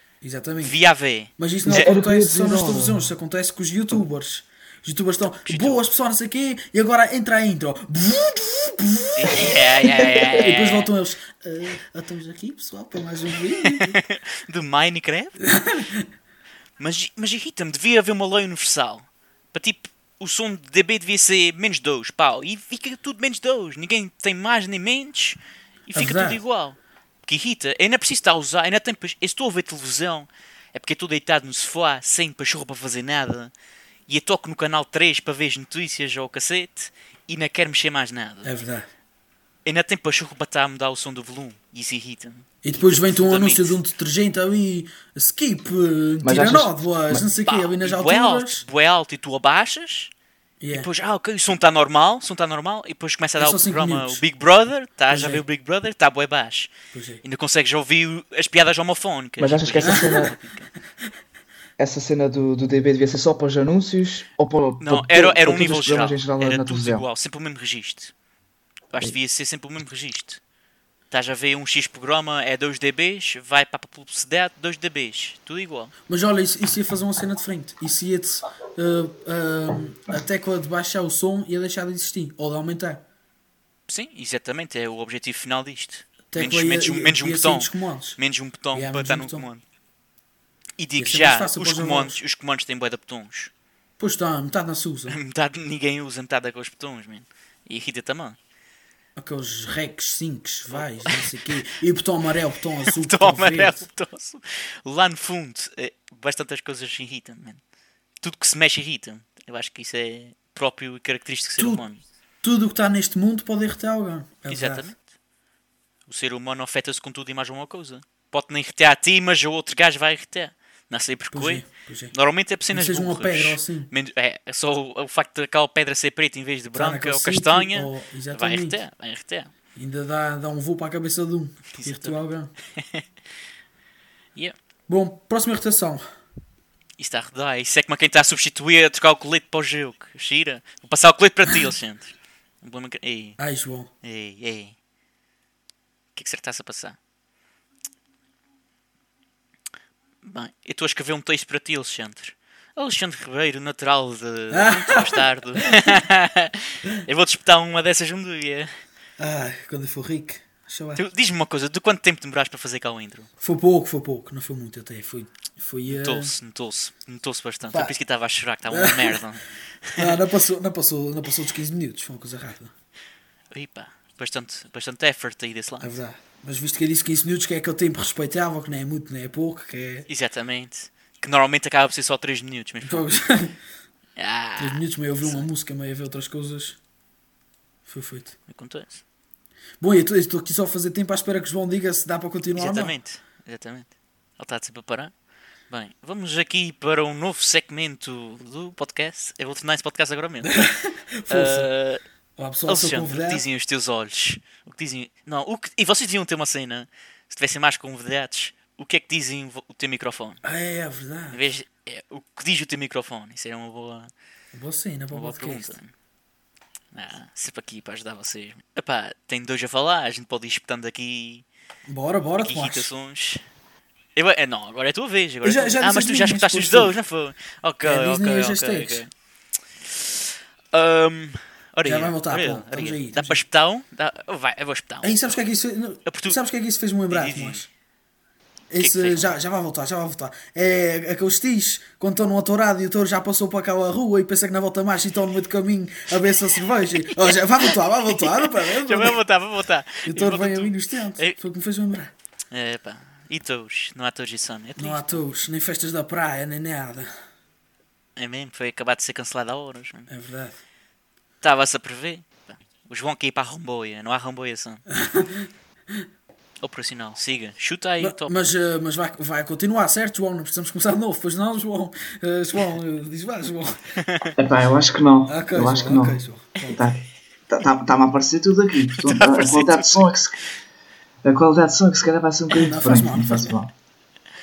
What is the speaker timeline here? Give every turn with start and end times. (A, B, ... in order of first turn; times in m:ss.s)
0:00.2-0:00.7 A
0:00.6-0:01.9 B
0:01.4-0:14.0 A
0:01.6-0:03.1 C
0:05.3-0:05.8 B
0:09.1-0:10.9 B
0:13.6-0:15.4 B
0:15.4-0:16.0 A
0:16.8-0:33.5 B
0:25.9-0:26.4 A
0:34.1-0:38.6 B
0:38.4-0:38.9 A
0:39.6-0:43.8 B
0:42.6-0:48.6 A
0:46.2-0:47.2 C
0:47.4-0:50.1 B
0:50.6-0:50.9 A
0:50.7-0:56.7 B
0:53.4-0:54.2 A
0:55.1-0:55.4 A
0:56.9-0:57.2 A
0:57.2-1:00.7 B
0:59.4-1:00.3 C
0:59.8-1:00.3 A
1:01.8-1:07.0 C
1:04.8-1:08.1 B
1:08.9-1:10.4 B
1:11.1-1:15.9 B
1:16.1-1:23.0 A
1:23.9-1:29.6 B
1:26.3-1:28.2 A
1:28.7-1:29.5 A
1:30.8-1:33.5 B
1:31.0-1:32.2 A
1:34.0-1:35.2 A
1:35.1-1:38.4 B
1:39.2-1:43.8 A
1:42.9-1:47.6 B
1:48.2-1:52.0 B
1:51.6-1:51.8 A
1:52.4-1:54.9 A
1:54.5-1:55.0 B
1:56.1-2:09.5 B
2:01.3-2:02.1 A
2:02.7-2:03.9 A
2:06.7-2:08.8 A
2:09.8-2:12.5 A
2:11.8-2:12.2 B
2:12.8-2:13.0 B
2:14.9-2:16.0 A
2:17.0-2:23.4 B
2:23.4-2:23.9 A
2:24.0-2:24.7 B
2:26.2-2:27.0 B
2:30.2-2:38.7 B
2:34.5-2:35.9 A
2:39.2-2:41.0 A
2:41.0-2:43.3 B
2:43.4-2:46.3 A
2:45.9-2:50.2 B
2:48.7-2:49.2 A
2:50.0-2:52.7 A
2:53.5-2:56.0 B
2:55.8-3:00.1 A
3:00.1-3:03.1 B
3:02.8-3:03.6 A
3:04.2-3:05.4 B
3:04.6-3:06.8 A
3:07.9-3:08.4 A
3:08.5-3:09.0 B
3:09.8-3:13.0 A
3:12.6-3:15.1 B
3:15.7-3:20.6 B
3:20.4-3:21.7 A
3:21.3-3:22.0 B
3:22.4-3:23.4 A
3:22.7-3:30.4 B
3:30.4-3:31.4 A
3:31.3-3:34.1 B
3:34.5-3:35.7 A
3:35.1-3:35.9 B
3:36.9-3:41.4 B
3:41.9-3:42.9 A
3:42.4-3:43.4 B
3:44.2-3:49.1 B
3:45.4-3:46.9 A
3:47.8-3:49.0 A
3:49.8-3:55.1 B
3:51.8-3:53.4 A
3:55.0-3:57.7 A
3:56.0-3:56.4 B
3:57.1-3:57.6 B
3:58.7-4:09.2 A
3:58.8-3:59.4 B
4:07.0-4:11.4 B
4:10.0-4:12.1 A
4:12.5-4:15.2 B
4:14.8-4:17.1 A
4:18.2-4:20.1 B
4:20.1-4:20.6 A
4:21.4-4:24.8 B
4:24.9-4:25.4 A
4:26.6-4:28.3 B
4:28.0-4:33.8 A
4:34.0-4:34.3 B
4:34.4-4:40.4 C
4:35.3-4:36.8 A
4:38.9-4:40.1 B
4:41.2-4:43.7 C
4:42.5-4:43.6 A